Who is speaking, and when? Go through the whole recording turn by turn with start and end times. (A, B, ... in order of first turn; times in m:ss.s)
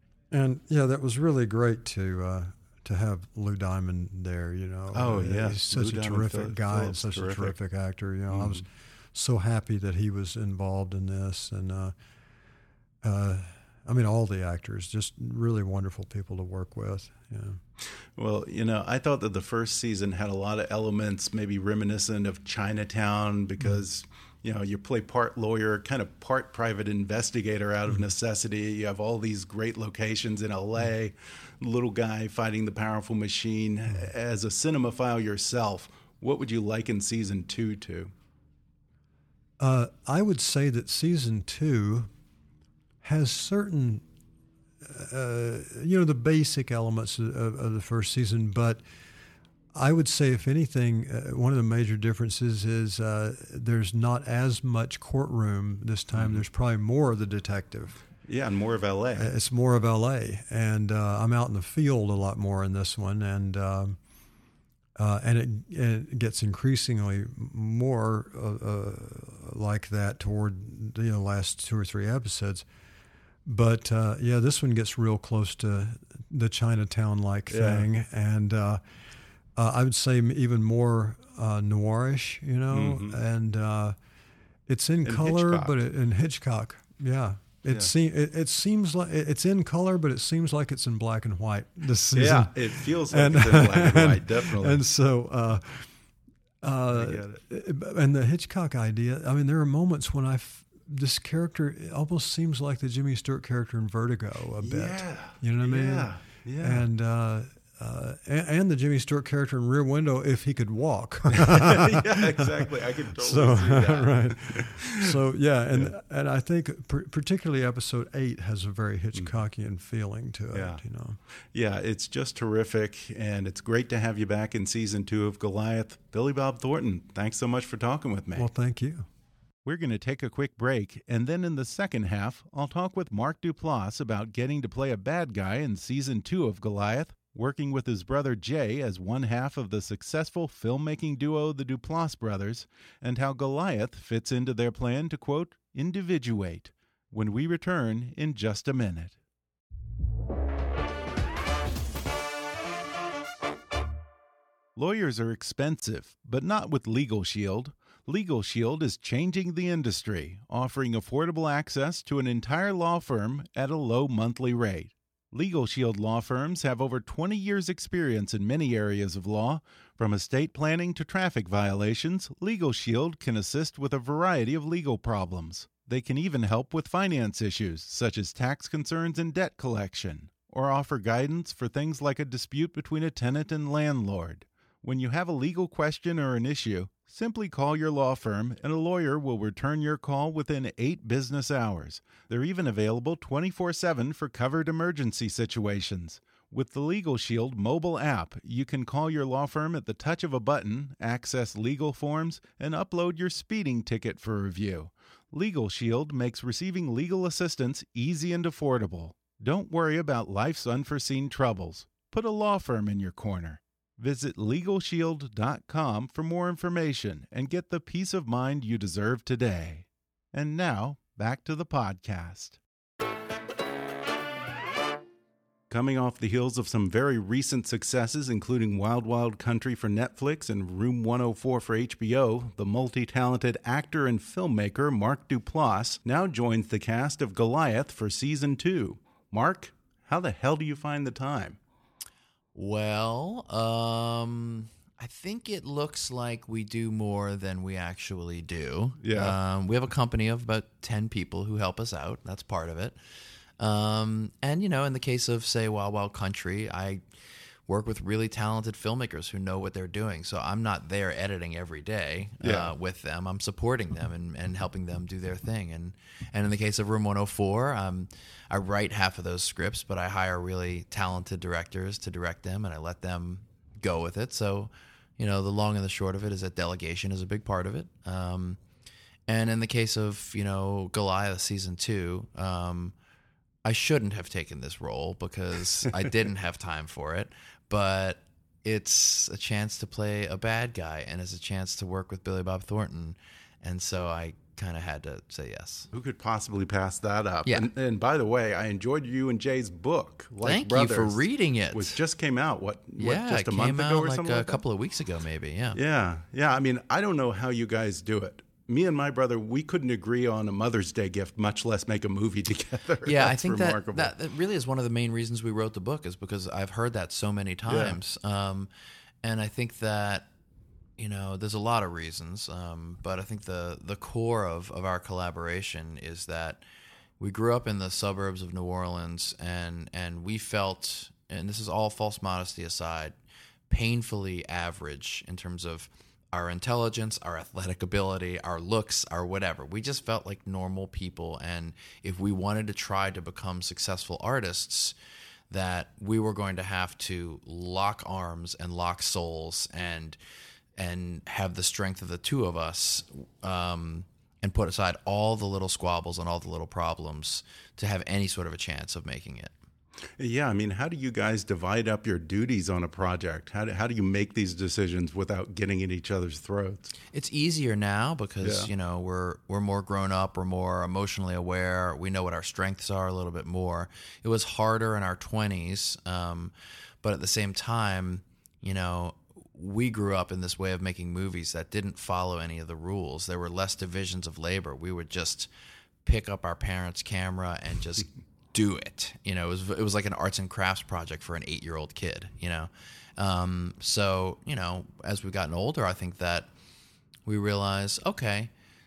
0:00.3-0:11.9 A
0:04.9-0:07.6 B
0:08.3-0:08.6 B
0:13.0-0:17.6 A
0:18.2-0:38.1 B
0:39.6-0:42.1 A
0:43.0-0:44.0 A
0:44.8-0:48.8 A
0:49.7-0:58.0 A
0:56.1-0:56.4 B
0:58.3-0:59.3 B
0:59.2-1:04.0 A
1:05.0-1:12.7 A
1:13.5-1:18.8 A
1:17.5-1:17.9 B
1:19.6-1:24.0 A
1:22.7-1:23.2 B
1:24.7-1:35.9 A
1:25.0-1:25.8 B
1:32.1-1:34.8 B
1:36.6-2:01.2 A
1:36.9-1:37.4 B
1:44.6-1:46.9 B
1:51.3-1:55.2 B
2:00.5-2:00.8 B
2:01.5-2:08.5 B
2:08.4-2:09.1 A
2:09.6-2:29.2 B
2:34.8-3:42.6 B
3:45.7-4:01.6 B
4:02.6-4:13.0 C
4:09.0-4:09.4 B
4:13.6-4:17.0 C
4:17.7-4:38.6 C
4:22.4-4:22.7 B
4:39.3-4:42.9 C
4:43.6-4:55.9 C
4:55.9-5:04.6 B
5:00.4-5:02.0 C
5:03.0-5:05.8 C
5:05.8-5:14.1 B
5:13.0-5:18.7 C
5:17.7-5:18.0 B
5:19.2-5:20.3 C
5:21.0-5:26.6 C
5:27.2-5:33.2 C
5:33.7-5:45.0 C
5:45.5-5:50.2 C
5:50.8-5:59.5 C
6:00.2-6:06.9 B
6:07.1-6:25.5 C
6:08.4-6:08.7 B
6:26.0-6:36.5 C
6:37.3-6:38.5 C